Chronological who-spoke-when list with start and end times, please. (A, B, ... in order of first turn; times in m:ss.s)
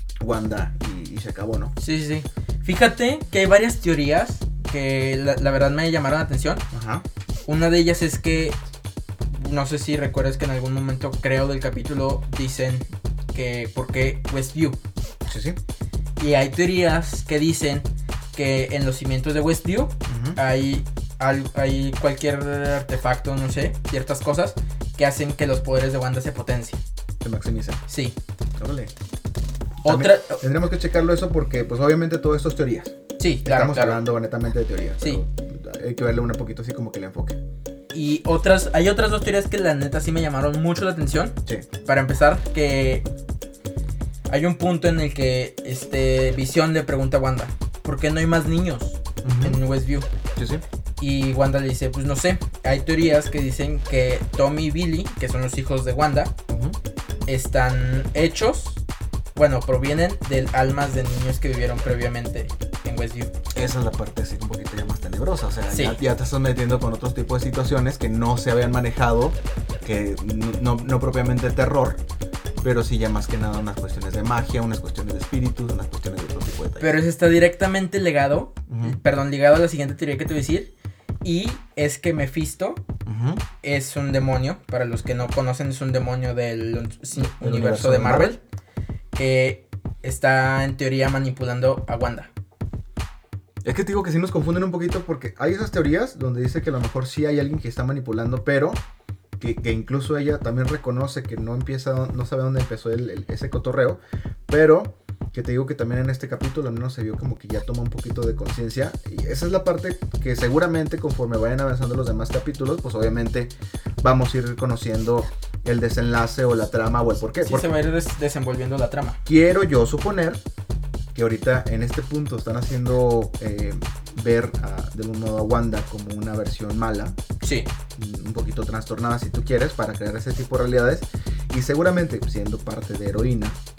0:00.2-0:01.7 A
0:01.8-0:06.6 B
0:06.7-0:07.0 A
0:07.4-0:08.6 B
0:09.3-0:14.8 B
0:15.3-0:15.6 A
0:16.2-0:26.8 B
0:20.0-0:20.4 A
0:27.2-0:27.8 A
0:27.9-0:28.2 B
0:28.6-0:28.9 A
0:29.8-0:37.4 A
0:29.8-0:30.4 B
0:33.2-0:34.0 B
0:37.9-0:43.1 B
0:44.3-0:50.1 B
0:49.2-0:49.6 A
0:50.3-0:50.6 A
0:51.0-0:56.3 B
0:56.5-0:56.8 A
0:57.3-0:58.8 B
0:59.3-1:03.3 B
1:03.5-1:12.0 A
1:05.7-1:06.0 B
1:12.6-1:16.9 A
1:16.8-1:20.7 B
1:18.7-1:19.0 A
1:21.2-1:22.8 B
1:23.0-1:23.4 A
1:23.6-1:28.4 B
1:27.1-1:28.4 A
1:29.1-1:32.3 B
1:33.6-1:38.8 A
1:39.4-1:57.7 A
1:57.4-1:59.2 B
1:59.2-2:00.4 A
2:01.1-2:07.2 A
2:07.4-2:07.7 B
2:08.0-2:13.6 A